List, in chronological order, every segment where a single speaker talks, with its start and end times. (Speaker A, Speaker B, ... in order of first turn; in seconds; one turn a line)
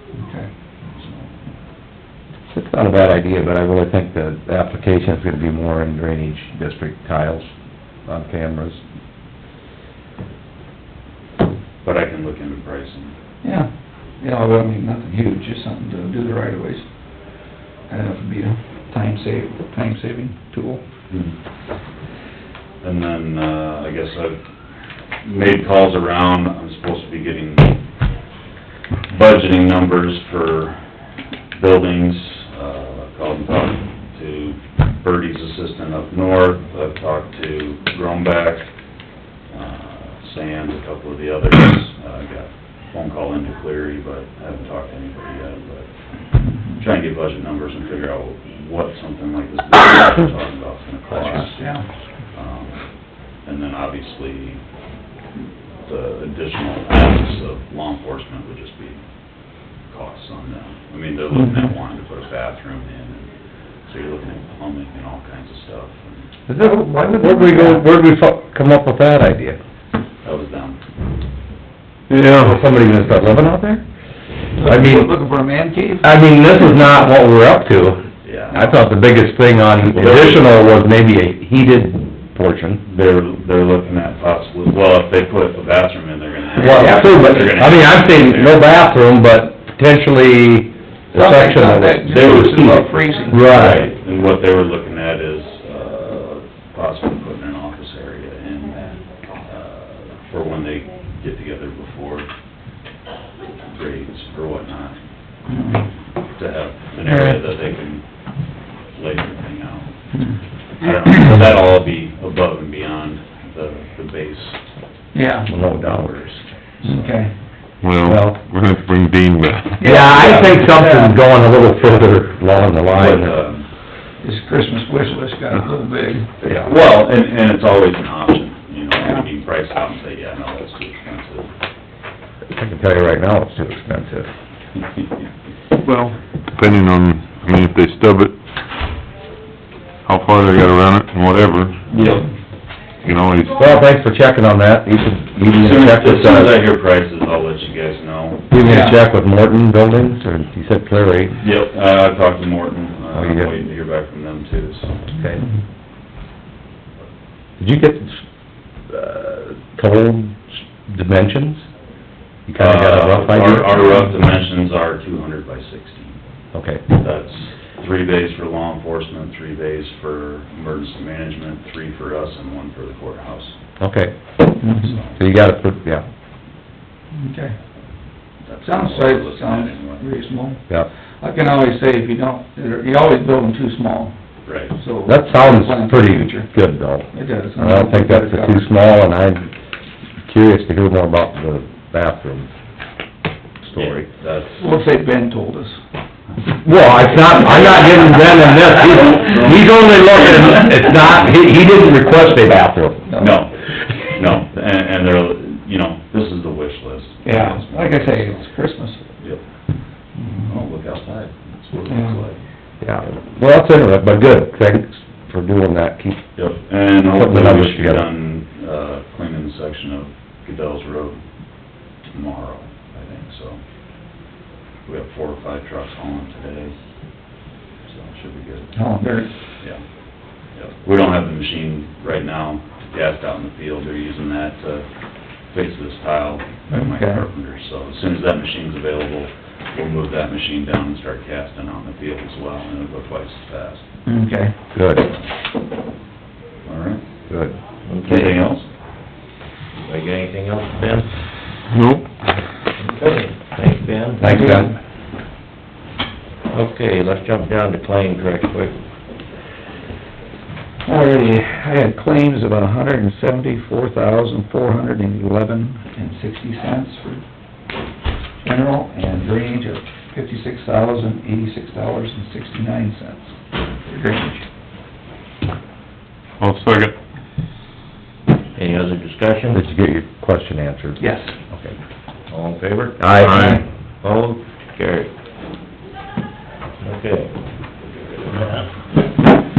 Speaker A: 0.1-0.5
Speaker B: 0.9-1.4
Speaker C: 2.5-7.5
Speaker C: 8.1-8.8
Speaker B: 11.8-13.2
Speaker A: 13.4-13.7
Speaker A: 14.2-20.8
Speaker B: 21.1-21.4
Speaker B: 22.8-24.4
Speaker B: 25.2-27.8
Speaker B: 29.1-30.9
Speaker B: 31.5-38.7
Speaker B: 39.5-51.8
Speaker A: 46.5-46.8
Speaker A: 51.1-51.9
Speaker B: 52.3-54.6
Speaker B: 55.8-59.0
Speaker B: 59.9-66.3
Speaker C: 66.5-69.6
Speaker A: 67.2-67.8
Speaker B: 70.2-70.8
Speaker D: 72.1-72.6
Speaker C: 72.3-73.8
Speaker A: 74.6-76.1
Speaker C: 74.6-75.1
Speaker C: 76.0-82.8
Speaker B: 78.2-78.8
Speaker B: 79.9-80.5
Speaker B: 82.8-88.7
Speaker C: 86.6-93.9
Speaker A: 86.6-87.6
Speaker A: 91.1-93.6
Speaker B: 93.4-102.3
Speaker B: 103.6-105.0
Speaker A: 105.5-105.8
Speaker B: 106.3-109.9
Speaker B: 110.8-114.6
Speaker A: 115.1-115.5
Speaker B: 115.5-117.1
Speaker C: 115.5-116.0
Speaker A: 116.8-117.3
Speaker D: 117.8-120.0
Speaker C: 118.0-118.4
Speaker A: 119.8-121.2
Speaker C: 119.8-123.4
Speaker B: 122.8-123.7
Speaker A: 124.2-126.7
Speaker B: 126.4-131.5
Speaker C: 132.5-134.3
Speaker D: 136.5-138.4
Speaker D: 140.1-142.2
Speaker A: 141.9-142.2
Speaker B: 142.0-142.2
Speaker D: 143.0-143.9
Speaker C: 143.5-146.6
Speaker B: 145.5-148.5
Speaker C: 148.5-151.4
Speaker A: 148.6-149.0
Speaker B: 151.4-155.0
Speaker C: 153.1-153.6
Speaker C: 155.1-155.4
Speaker C: 157.6-158.2
Speaker C: 158.9-161.7
Speaker C: 162.5-163.9
Speaker B: 162.6-166.2
Speaker C: 166.5-166.8
Speaker B: 166.9-173.6
Speaker C: 173.8-174.1
Speaker A: 174.6-174.9
Speaker B: 174.7-175.2
Speaker C: 175.2-176.1
Speaker A: 177.1-177.6
Speaker B: 178.4-180.1
Speaker A: 178.6-180.6
Speaker A: 181.2-184.2
Speaker B: 184.4-184.7
Speaker A: 184.7-186.5
Speaker C: 185.1-189.5
Speaker A: 187.1-188.7
Speaker C: 190.2-192.5
Speaker C: 193.6-194.1
Speaker B: 193.8-194.7
Speaker A: 194.6-195.8
Speaker C: 196.6-203.2
Speaker B: 199.2-199.6
Speaker A: 203.1-203.4
Speaker B: 203.2-203.6
Speaker B: 204.1-208.4
Speaker A: 207.2-209.2
Speaker B: 210.4-212.4
Speaker A: 211.9-212.2
Speaker C: 212.8-216.3
Speaker B: 216.4-221.2
Speaker C: 217.0-218.1
Speaker B: 222.0-223.6
Speaker B: 224.9-226.8
Speaker B: 227.8-228.8
Speaker A: 228.8-229.3
Speaker B: 230.6-234.9
Speaker B: 235.5-243.8
Speaker A: 236.7-237.2
Speaker A: 244.1-244.6
Speaker C: 244.7-245.1
Speaker B: 246.7-247.0
Speaker C: 247.3-247.6
Speaker E: 247.9-248.4
Speaker B: 248.0-248.7
Speaker E: 249.8-251.2
Speaker D: 251.7-252.1
Speaker E: 252.8-254.3
Speaker C: 254.2-254.7
Speaker A: 254.2-254.7
Speaker E: 256.5-258.8
Speaker A: 260.9-267.2
Speaker A: 268.4-274.4
Speaker D: 276.4-276.9
Speaker E: 278.6-279.6
Speaker C: 279.5-281.8
Speaker A: 281.0-281.3
Speaker E: 282.3-283.2
Speaker C: 283.0-283.6
Speaker D: 283.1-283.6
Speaker A: 283.3-283.6
Speaker E: 284.0-285.1
Speaker E: 286.8-287.3
Speaker E: 288.2-288.7